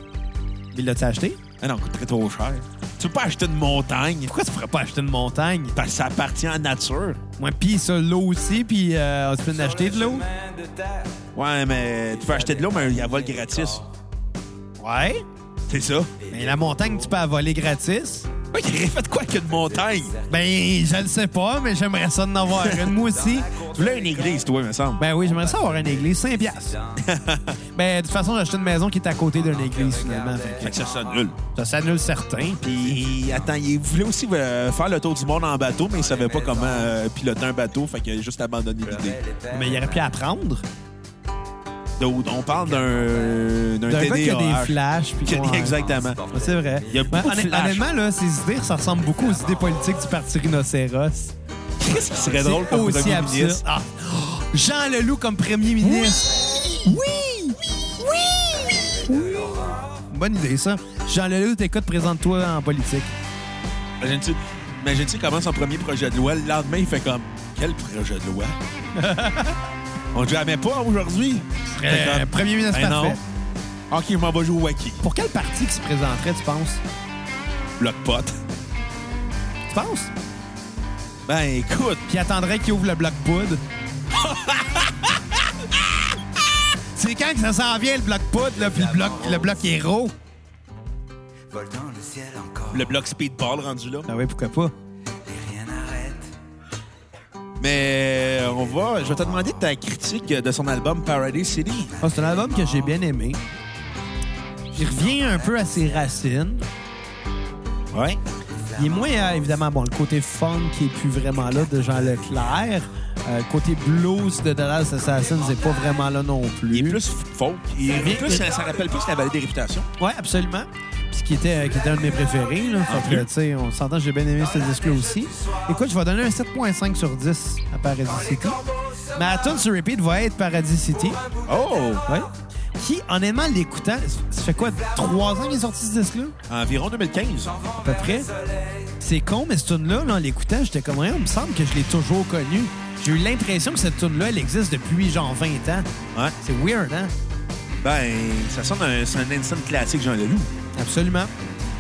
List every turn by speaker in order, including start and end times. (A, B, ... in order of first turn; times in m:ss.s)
0:00.7-0:01.4 A
0:01.6-0:04.3 B
0:04.3-0:05.8 A
0:05.8-0:07.2 B
0:07.4-0:10.3 A
0:10.3-0:11.1 C
0:11.4-0:13.8 B
0:14.8-0:15.2 A
0:15.7-0:16.2 B
0:16.3-0:18.3 A
0:18.5-0:20.2 B
0:20.3-0:23.6 A
0:22.6-0:23.0 B
0:23.5-0:25.0 B
0:25.0-0:26.8 A
0:27.0-0:27.6 B
0:27.7-0:30.7 A
0:30.6-0:31.4 B
0:31.5-0:33.0 A
0:32.6-0:39.2 B
0:39.5-0:40.6 A
0:42.0-0:46.2 B
0:43.9-0:51.3 A
0:46.8-0:47.9 B
0:51.8-0:53.6 B
0:52.2-1:03.1 A
0:55.8-0:56.9 B
1:04.0-1:08.6 B
1:09.0-1:09.6 A
1:10.1-1:13.2 B
1:11.7-1:13.2 A
1:13.9-1:15.0 B
1:15.0-1:16.8 A
1:17.8-1:18.4 B
1:19.7-1:20.1 A
1:21.3-1:22.0 B
1:22.1-1:23.6 A
1:24.1-1:26.1 B
1:27.0-1:30.1 A
1:31.5-1:32.9 C
1:32.7-1:34.1 B
1:34.1-1:34.7 A
1:35.2-1:36.3 C
1:37.6-1:42.0 B
1:42.0-1:43.4 A
1:44.8-1:46.6 A
1:47.9-1:48.2 B
1:48.8-1:57.0 A
1:56.7-1:59.9 B
1:57.9-1:58.5 A
2:00.0-2:08.6 A
2:02.9-2:03.3 B
2:09.1-2:11.2 A
2:11.5-2:12.0 B
2:12.1-2:16.4 A
2:16.5-2:17.6 B
2:17.8-2:18.3 A
2:19.0-2:25.9 A
2:26.4-2:27.1 A
2:27.8-2:30.5 B
2:30.8-2:31.3 A